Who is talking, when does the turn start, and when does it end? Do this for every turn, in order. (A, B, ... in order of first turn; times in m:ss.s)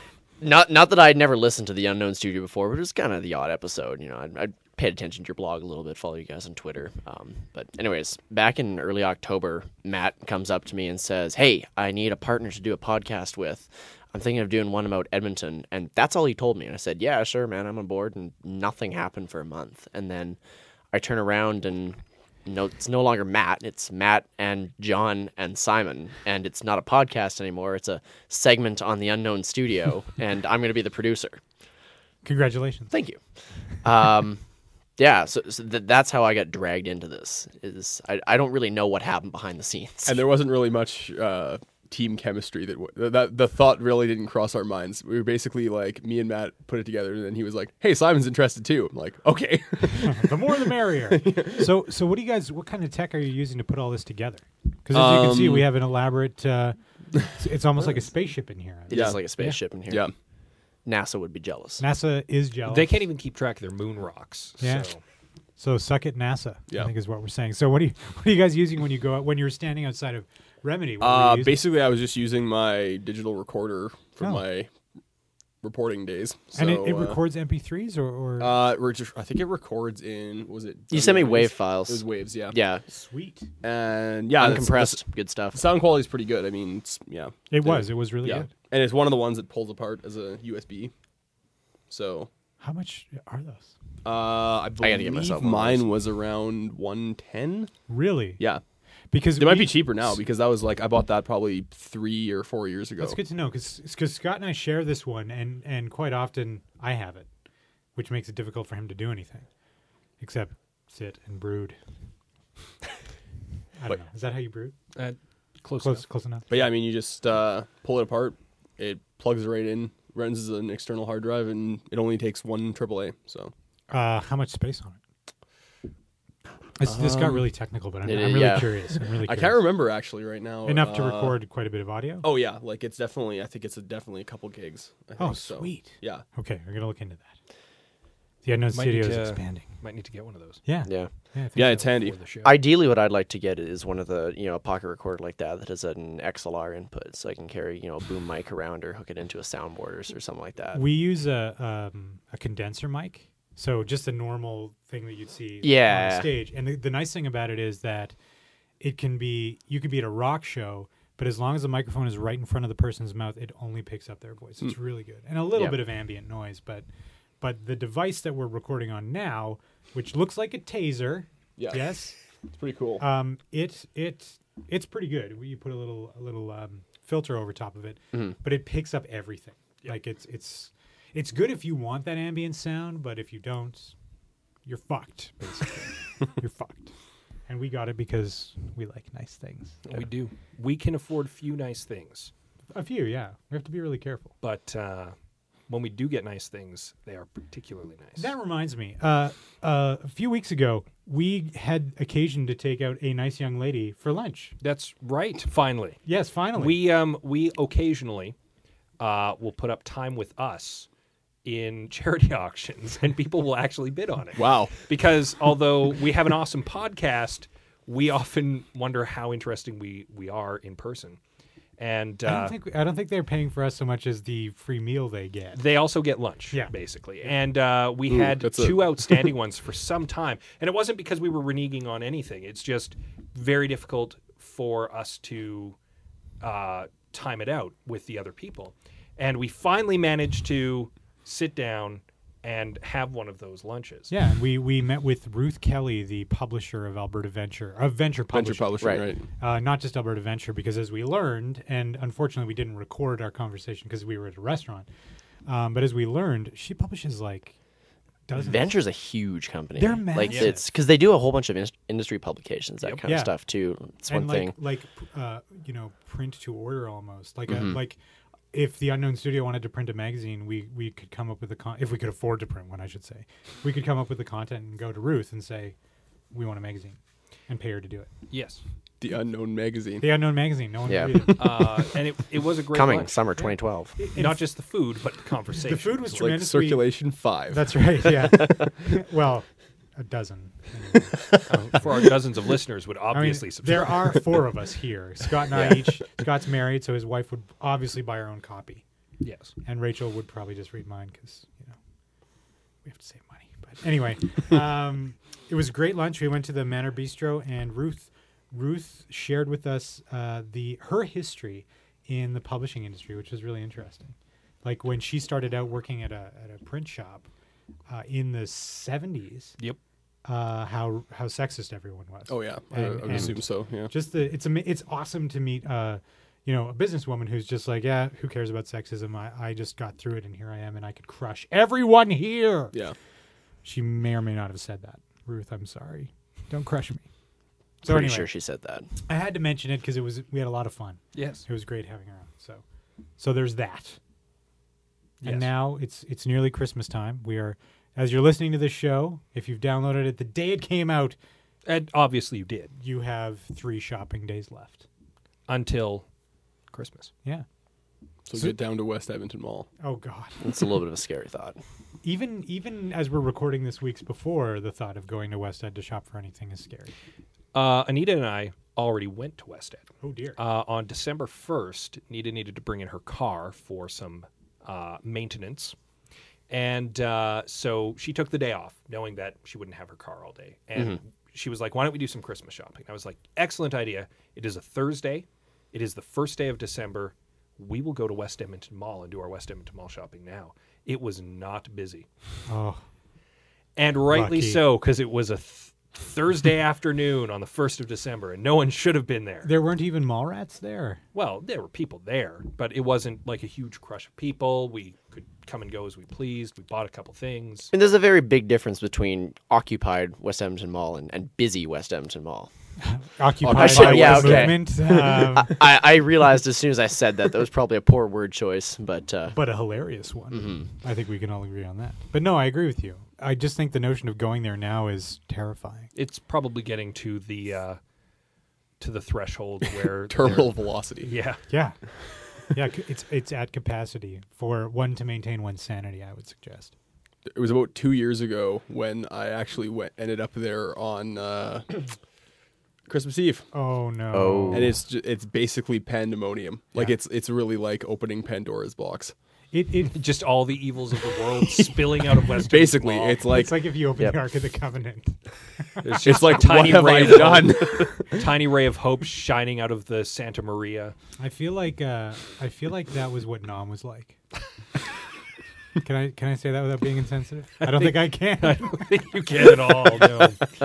0:00.4-0:20.4 A
0:20.9-0:31.4 A
0:32.2-0:32.9 B
0:32.9-0:33.2 A
0:33.8-0:34.4 A
0:35.0-0:40.2 A
0:40.1-0:51.7 C
0:50.1-0:59.2 B
0:54.9-0:55.7 C
0:58.9-1:00.1 A
0:58.9-0:59.2 C
0:59.9-1:00.1 C
1:00.8-1:01.8 A
1:01.8-1:02.9 B
1:02.7-1:05.0 D
1:04.6-1:04.9 B
1:05.6-1:11.6 B
1:11.0-1:14.7 C
1:14.2-1:14.4 B
1:15.6-1:17.2 C
1:16.5-1:18.6 B
1:18.4-1:22.6 C
1:20.9-1:22.8 A
1:22.9-1:23.5 B
1:23.6-1:25.0 C
1:24.4-1:25.6 A
1:25.5-1:30.9 C
1:27.5-1:28.5 B
1:31.9-1:32.3 C
1:32.6-1:33.7 B
1:34.0-1:37.7 C
1:34.8-1:35.9 A
1:37.9-1:38.4 B
1:39.1-1:40.2 B
1:39.4-1:43.2 C
1:43.0-1:47.3 B
1:48.0-1:49.5 B
1:50.2-1:51.8 B
1:53.8-1:54.7 B
1:55.0-1:56.1 D
1:55.8-1:56.5 B
1:56.5-2:03.5 C
2:03.9-2:05.0 B
2:06.8-2:09.7 B
2:06.8-2:07.5 C
2:08.0-2:08.7 A
2:09.2-2:11.4 C
2:10.6-2:12.3 B
2:12.2-2:16.2 C
2:15.2-2:17.3 B
2:18.4-2:19.7 B
2:18.7-2:20.6 D
2:20.6-2:22.0 B
2:20.8-2:21.1 A
2:21.6-2:22.2 C
2:21.6-2:22.6 D
2:22.4-2:30.8 A
2:30.8-2:38.2 B
2:35.6-2:36.4 A
2:38.8-2:46.9 B
2:45.5-2:45.8 A
2:47.4-2:52.2 B
2:51.6-2:51.9 C
2:52.5-2:53.0 C
2:53.0-3:04.0 B
3:04.7-3:06.9 B
3:07.5-3:09.8 B
3:09.9-3:12.3 D
3:12.7-3:14.3 B
3:14.4-3:15.2 D
3:15.7-3:18.3 D
3:18.2-3:24.6 B
3:24.6-3:26.0 D
3:26.1-3:26.8 B
3:26.6-3:28.4 D
3:29.0-3:30.9 D
3:31.4-3:41.2 D
3:34.4-3:34.8 C
3:41.8-3:42.5 D
3:42.2-3:45.6 B
3:45.6-3:55.8 D
3:48.1-3:49.3 C
3:56.4-4:04.1 D
4:04.1-4:14.9 B
4:08.3-4:09.2 C
4:15.5-4:17.5 B
4:18.3-4:18.8 B
4:18.4-4:24.6 A
4:19.8-4:20.6 B
4:20.3-4:20.5 D
4:23.1-4:23.3 B
4:24.1-4:28.0 B
4:27.5-4:27.8 A
4:28.5-4:35.8 B
4:36.3-4:38.1 B
4:38.3-4:38.6 D
4:39.0-4:40.2 C
4:40.0-4:41.8 B
4:40.9-4:41.3 A
4:41.4-4:43.4 D
4:42.7-4:44.0 A
4:43.4-4:44.5 B
4:44.2-4:46.2 D
4:45.6-4:46.9 B
4:46.1-4:48.7 C
4:47.5-4:51.3 B
4:51.5-4:54.2 D
4:53.1-4:58.8 B
4:59.2-4:59.5 D
4:59.6-5:01.8 B
5:02.8-5:17.3 B
5:17.9-5:19.6 B
5:20.2-5:32.8 B
5:22.3-5:23.9 C
5:33.6-5:37.1 B
5:37.8-5:38.3 B
5:37.9-5:38.9 A
5:39.1-5:42.6 B
5:41.1-5:41.4 D
5:43.2-5:44.0 B
5:45.2-5:45.5 D
5:45.2-5:51.2 B
5:51.6-5:52.7 D
5:52.8-5:54.9 B
5:55.5-5:56.0 D
5:56.7-5:57.1 D
5:58.2-5:59.7 C
5:58.3-5:58.6 B
5:59.8-6:00.4 B
6:00.4-6:01.6 A
6:02.0-6:06.9 B
6:07.5-6:15.8 D
6:10.0-6:10.4 B
6:16.5-6:32.1 D
6:32.5-6:32.8 B
6:33.8-6:39.5 D
6:34.1-6:34.7 B
6:39.4-6:41.0 B
6:41.1-6:47.7 D
6:47.7-6:52.5 A
6:52.8-6:55.6 B
6:53.4-6:54.6 C
6:53.5-6:59.4 A
6:59.3-7:05.9 B
7:00.3-7:00.7 A
7:06.0-7:07.8 D
7:08.8-7:11.4 D
7:10.1-7:11.1 C
7:11.5-7:11.8 B
7:12.3-7:16.7 B
7:17.3-7:21.7 C
7:22.9-7:23.5 C
7:23.5-7:24.8 B
7:24.1-7:24.8 A
7:24.5-7:29.1 C
7:29.5-7:30.0 B
7:29.9-7:33.3 D
7:32.3-7:33.6 C
7:33.3-7:36.2 B
7:35.8-7:41.0 D
7:36.0-7:38.2 C
7:41.2-7:44.2 B
7:45.8-7:48.8 B
7:47.7-7:50.4 D